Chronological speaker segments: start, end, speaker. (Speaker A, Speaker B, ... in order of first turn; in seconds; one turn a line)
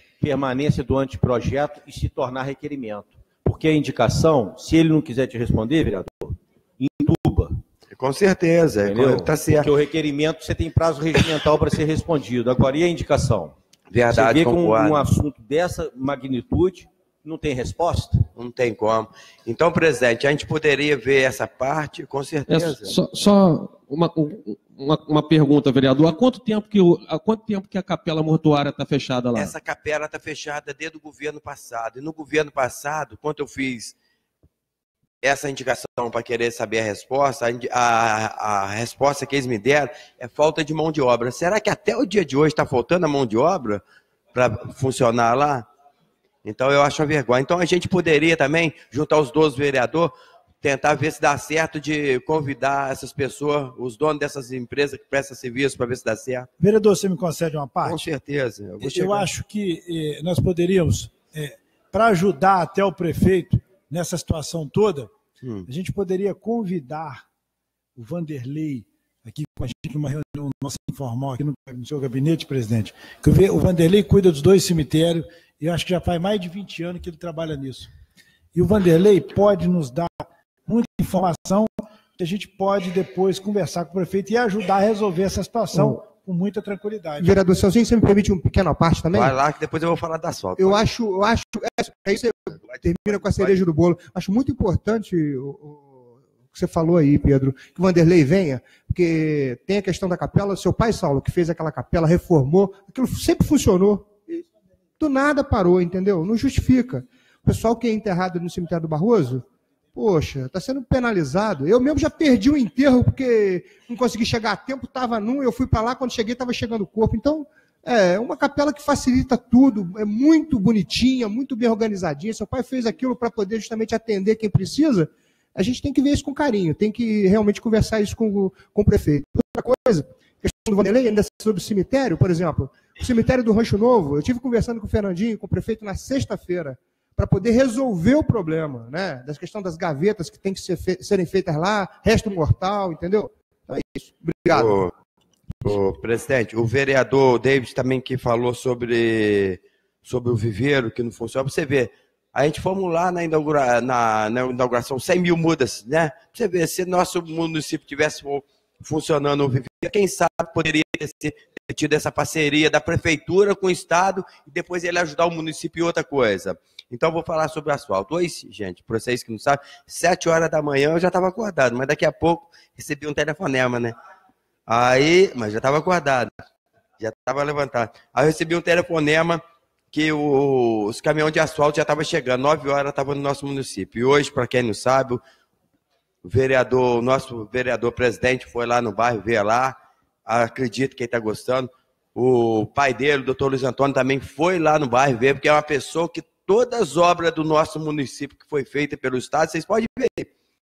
Speaker A: 0.2-7.6
Speaker B: 7.9-9.7
Speaker A: 8.8-13.6
Speaker B: 13.9-15.1
Speaker A: 14.1-18.3
Speaker B: 18.4-23.0
Speaker C: 22.5-29.6
Speaker B: 29.4-34.0
Speaker B: 35.2-45.7
Speaker B: 46.4-56.5
Speaker D: 56.6-58.1
Speaker B: 57.8-59.3
Speaker D: 58.8-65.1
Speaker B: 65.4-65.7
Speaker D: 65.7-67.2
Speaker D: 68.0-77.9
Speaker D: 78.5-87.3
Speaker E: 85.7-86.0
Speaker E: 87.2-89.4
Speaker B: 89.1-90.8
Speaker E: 90.6-104.4
Speaker B: 92.6-93.6
Speaker E: 105.0-144.9
Speaker B: 144.5-144.9
Speaker B: 145.6-174.0
Speaker B: 174.7-176.3
Speaker B: 177.0-185.2
Speaker B: 186.2-200.3